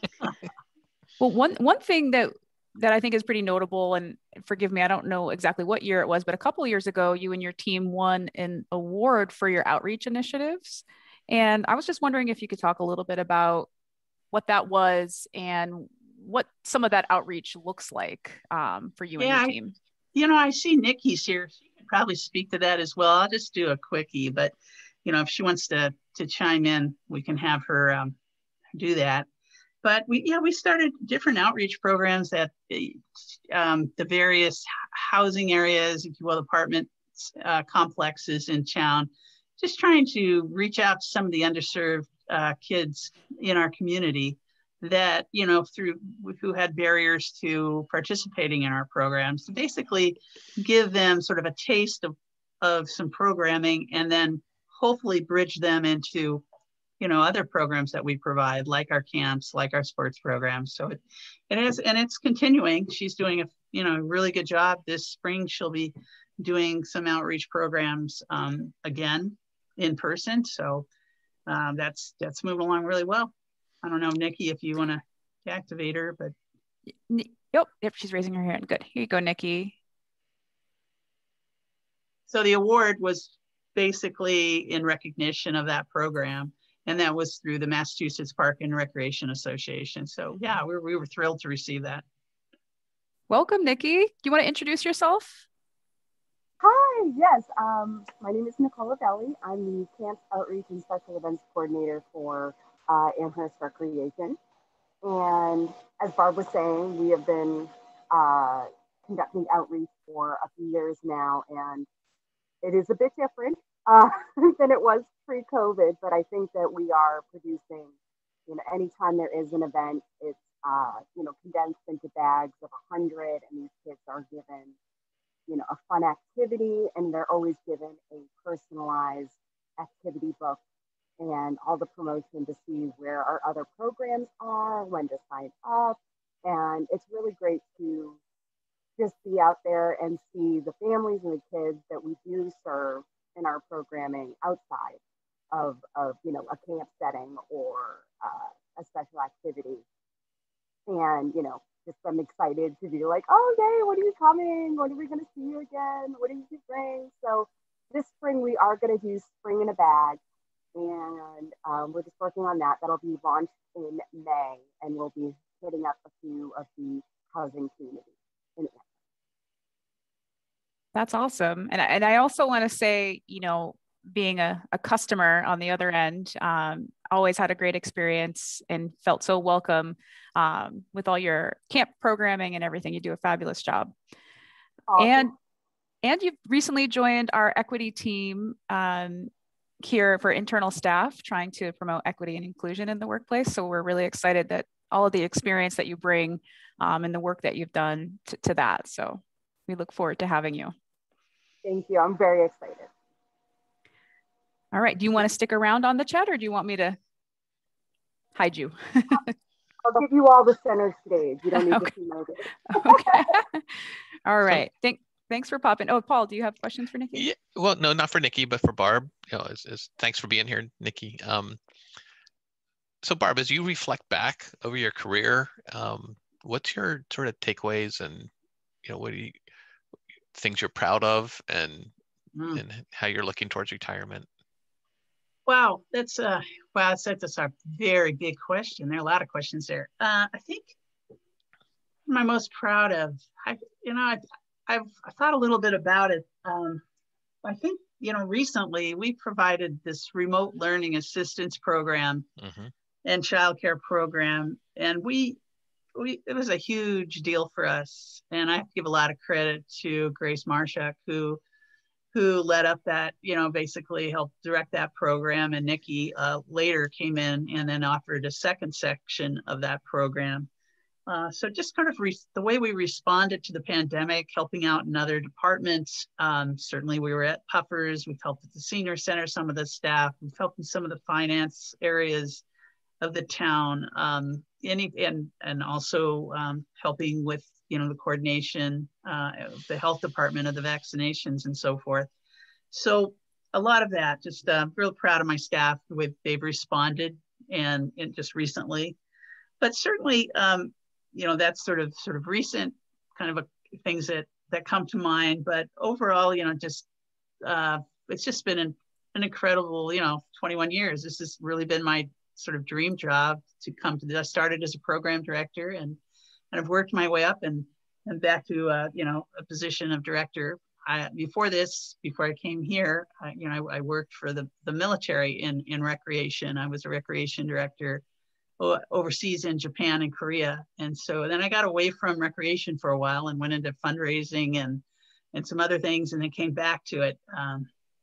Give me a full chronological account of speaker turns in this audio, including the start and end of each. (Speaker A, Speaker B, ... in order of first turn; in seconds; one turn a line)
Speaker A: 1.2-13.7
Speaker A: 14.3-19.7
Speaker B: 19.2-19.6
Speaker B: 20.1-28.1
Speaker B: 28.8-29.3
Speaker B: 29.8-56.4
Speaker B: 57.0-61.0
Speaker B: 61.5-70.9
Speaker B: 71.5-76.3
Speaker A: 77.1-79.8
Speaker B: 82.3-92.0
Speaker A: 93.3-95.5
Speaker C: 96.6-104.4
Speaker C: 105.0-111.9
Speaker C: 112.6-117.9
Speaker C: 118.5-124.8
Speaker C: 125.5-130.6
Speaker C: 131.2-138.2
Speaker C: 139.0-145.0
Speaker C: 145.5-149.8
Speaker C: 150.9-160.2
Speaker C: 160.8-168.8
Speaker A: 170.9-183.9
Speaker C: 184.9-185.3
Speaker A: 185.0-185.3
Speaker A: 186.0-189.3
Speaker A: 189.8-200.7
Speaker C: 201.6-202.9
Speaker A: 204.7-207.0
Speaker A: 208.3-209.3
Speaker C: 209.8-213.3
Speaker A: 211.6-211.9
Speaker A: 212.7-217.3
Speaker D: 217.2-221.6
Speaker D: 223.0-228.3
Speaker D: 228.8-229.4
Speaker D: 230.3-231.9
Speaker B: 232.4-232.6
Speaker D: 232.5-234.3
Speaker B: 235.5-240.8
Speaker B: 242.1-246.8
Speaker B: 247.4-252.3
Speaker D: 252.4-252.7
Speaker B: 253.1-255.4
Speaker B: 255.9-261.4
Speaker B: 262.1-270.5
Speaker B: 271.1-282.4
Speaker B: 283.0-292.1
Speaker B: 292.7-299.0
Speaker B: 299.6-306.9
Speaker B: 307.4-316.0
Speaker B: 316.5-328.0
Speaker B: 328.6-337.7